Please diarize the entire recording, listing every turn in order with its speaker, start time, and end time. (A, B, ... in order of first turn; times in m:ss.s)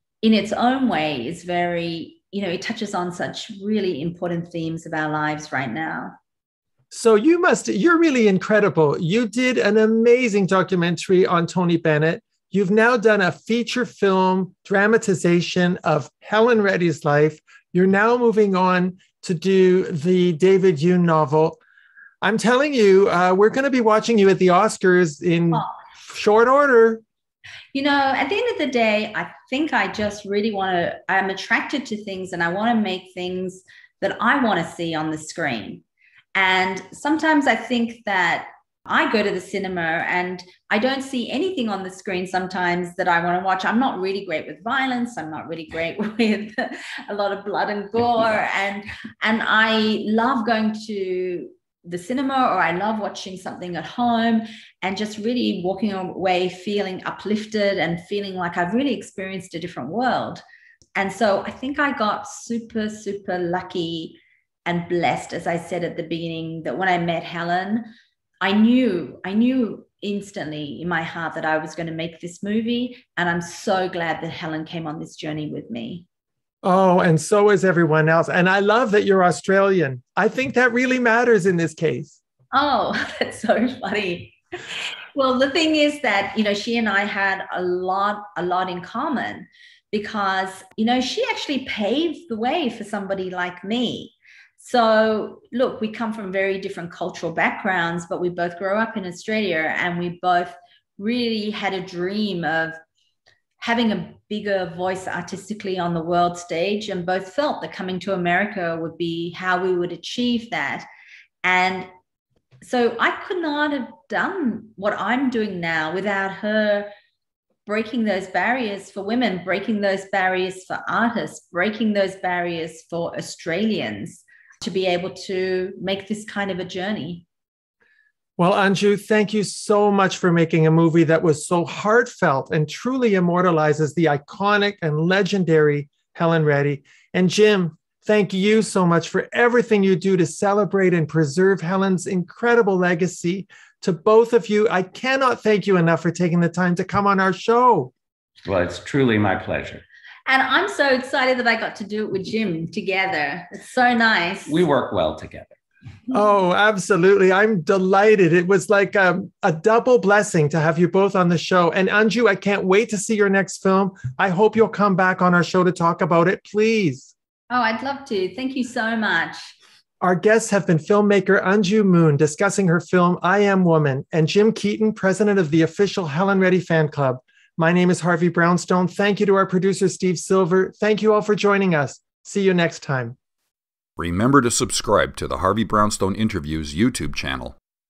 0:00.2-0:06.1 A
0:06.9-0:21.6 B
0:22.2-0:27.0 B
0:27.7-0:35.8 A
0:36.3-1:00.4 A
1:01.0-1:07.9 A
1:08.4-1:16.0 A
1:16.6-1:22.2 B
1:22.5-1:24.4 A
1:25.1-1:42.8 A
1:43.6-1:50.9 A
1:51.4-1:51.9 A
1:52.6-1:56.9 A
1:57.6-2:07.2 A
2:08.4-2:27.9 B
2:28.4-2:29.8 C
2:30.3-2:34.5 A
2:34.5-2:35.6 C
2:36.1-2:47.1 B
2:47.5-2:49.5 A
2:50.0-3:03.2 B
3:04.0-3:07.5 D